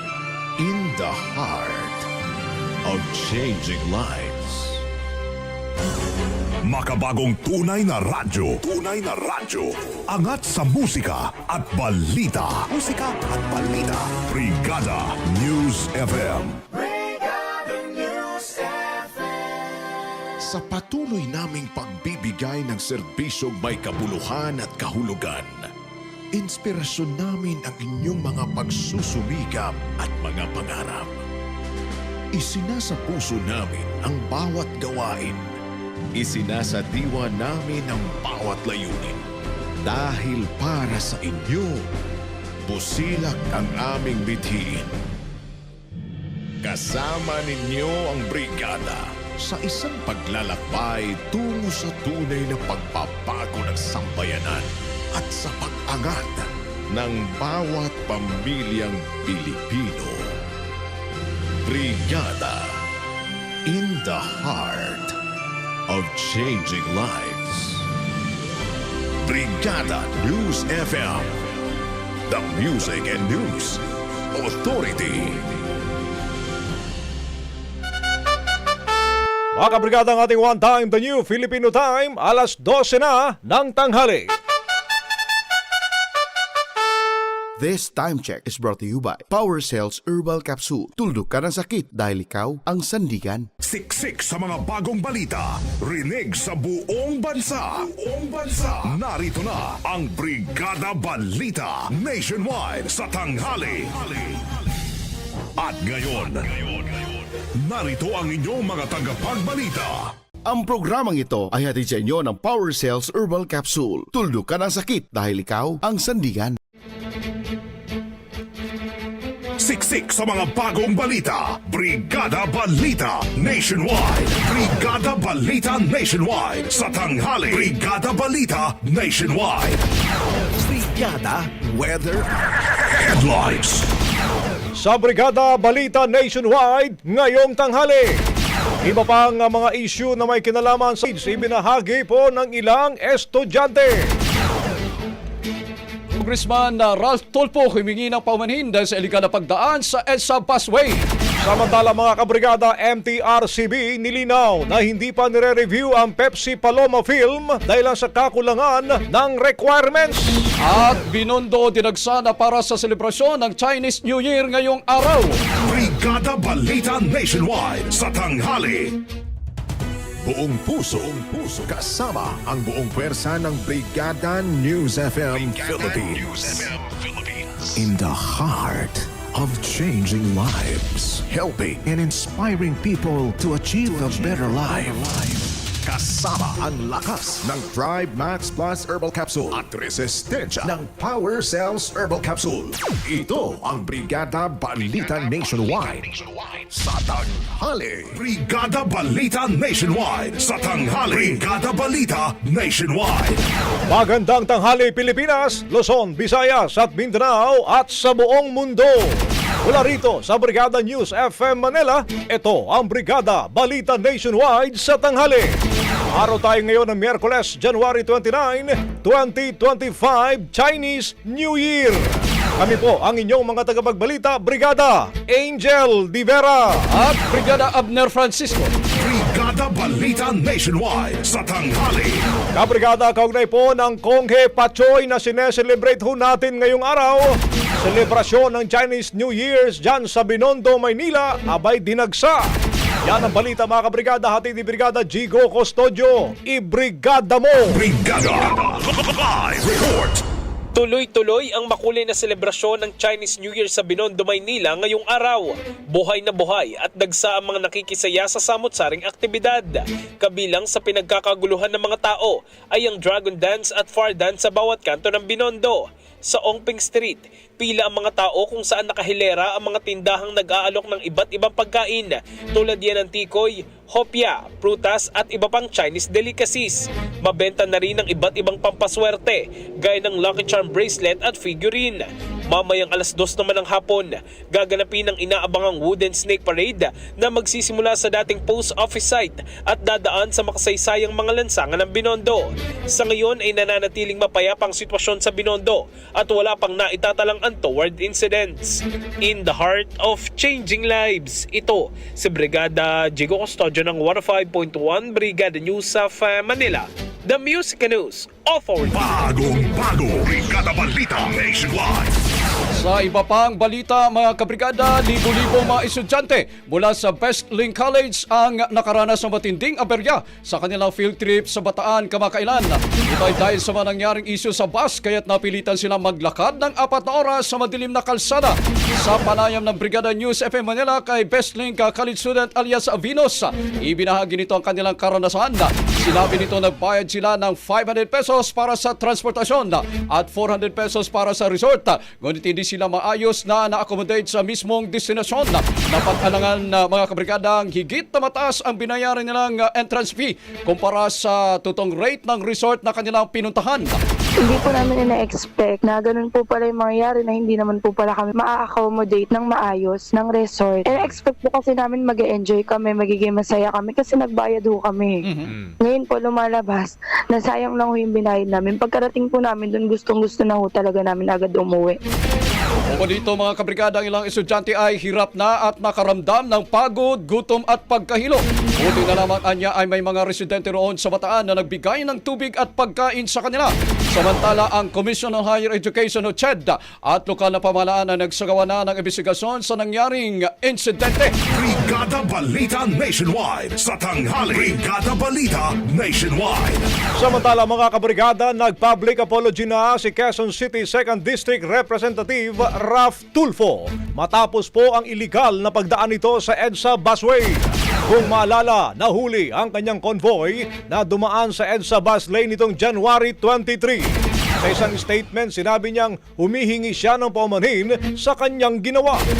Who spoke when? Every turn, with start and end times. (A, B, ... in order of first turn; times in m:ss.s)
0:00.6-0:02.1 A
0:02.8-0:04.8 A
0:06.6-0:16.6 B
0:20.4-0:25.6 A
0:26.3-0:31.2 A
0:32.3-0:35.5 A
0:36.2-0:39.2 A
0:39.8-0:41.9 A
0:42.7-0:44.9 A
0:46.6-1:00.3 A
1:01.6-1:02.8 A
1:03.7-1:05.2 A
1:05.9-1:07.9 A
1:09.2-1:11.3 A
1:12.3-1:13.8 A
1:14.3-1:15.4 A
1:19.6-1:24.3 C
1:27.6-1:33.5 D
1:33.6-1:44.4 B
1:45.6-1:46.9 B
1:47.6-1:50.1 B
1:50.4-1:56.6 D
1:59.6-2:09.8 B
2:10.6-2:12.3 A
2:12.9-2:13.9 B
2:14.8-2:18.2 C
2:18.8-2:24.0 C
2:26.2-2:31.0 E
2:31.4-2:40.4 C
2:40.6-2:45.4 E
2:45.6-2:48.9 B
2:50.2-3:18.2 A
3:18.1-3:23.4 B
3:23.9-3:35.5 C
3:36.2-3:46.8 C
3:46.9-3:48.7 E
3:49.0-3:52.2 B
3:52.5-4:02.4 C
4:03.0-4:07.8 C
4:07.7-4:10.2 B
4:10.8-5:09.2 F
5:08.9-5:12.1 B
5:12.8-5:54.0 E
5:54.4-6:05.2 G
6:05.2-6:05.6 E
6:05.8-6:12.0 G
6:12.9-6:31.3 E
6:31.5-6:36.9 B
6:37.2-6:59.2 C